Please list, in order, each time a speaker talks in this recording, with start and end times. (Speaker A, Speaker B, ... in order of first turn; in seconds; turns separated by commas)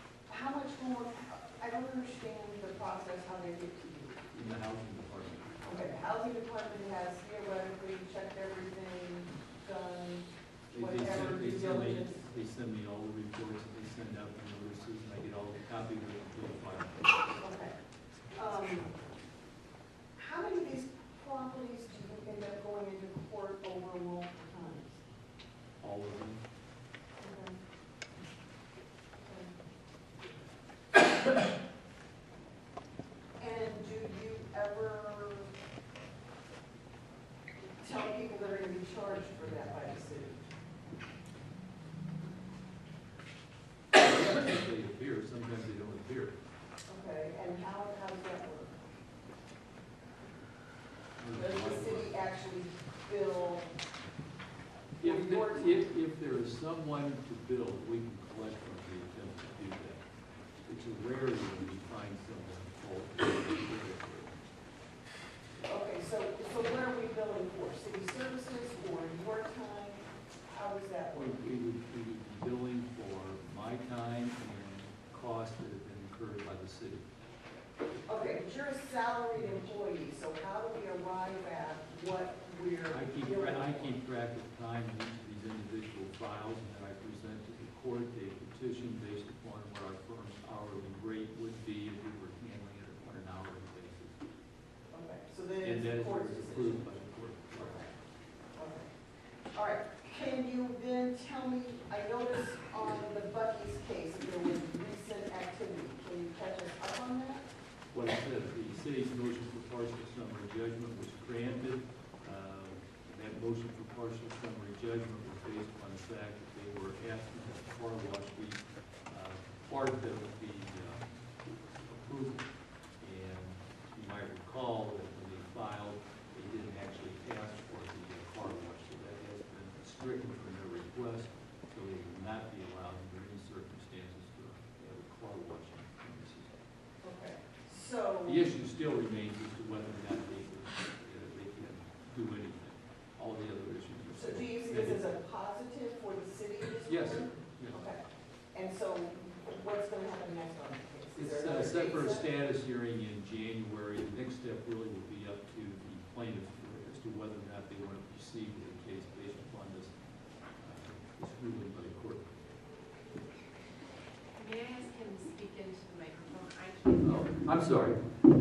Speaker A: 0.3-4.2, Speaker B: 4.3-5.9, Speaker A: 5.6-12.3, Speaker B: 10.7-17.4, Speaker A: 17.4-17.7, Speaker A: 18.4-18.9, Speaker A: 20.2-25.0, Speaker B: 25.8-26.4, Speaker A: 27.2-27.6, Speaker A: 29.2-29.5, Speaker A: 33.4-35.5, Speaker A: 37.8-40.4, Speaker B: 44.0-46.4, Speaker A: 46.9-48.8, Speaker B: 51.2-52.1, Speaker A: 51.3-53.7, Speaker B: 55.0-60.0, Speaker A: 55.0-55.9, Speaker B: 60.7-64.4, Speaker A: 65.6-71.3, Speaker B: 71.1-77.0, Speaker A: 78.1-84.0, Speaker B: 79.3-79.8, Speaker B: 82.9-94.2, Speaker A: 94.9-96.9, Speaker B: 95.6-97.9, Speaker A: 97.5-97.9, Speaker A: 98.6-98.9, Speaker A: 99.5-107.4, Speaker B: 107.9-121.1, Speaker B: 121.8-122.5, Speaker B: 123.0-136.6, Speaker A: 137.0-138.5, Speaker B: 138.2-145.1, Speaker A: 144.1-148.0, Speaker B: 146.8-147.8, Speaker A: 148.5-152.3, Speaker B: 151.1-159.9, Speaker B: 160.6-162.3, Speaker C: 164.4-167.4, Speaker B: 167.0-168.2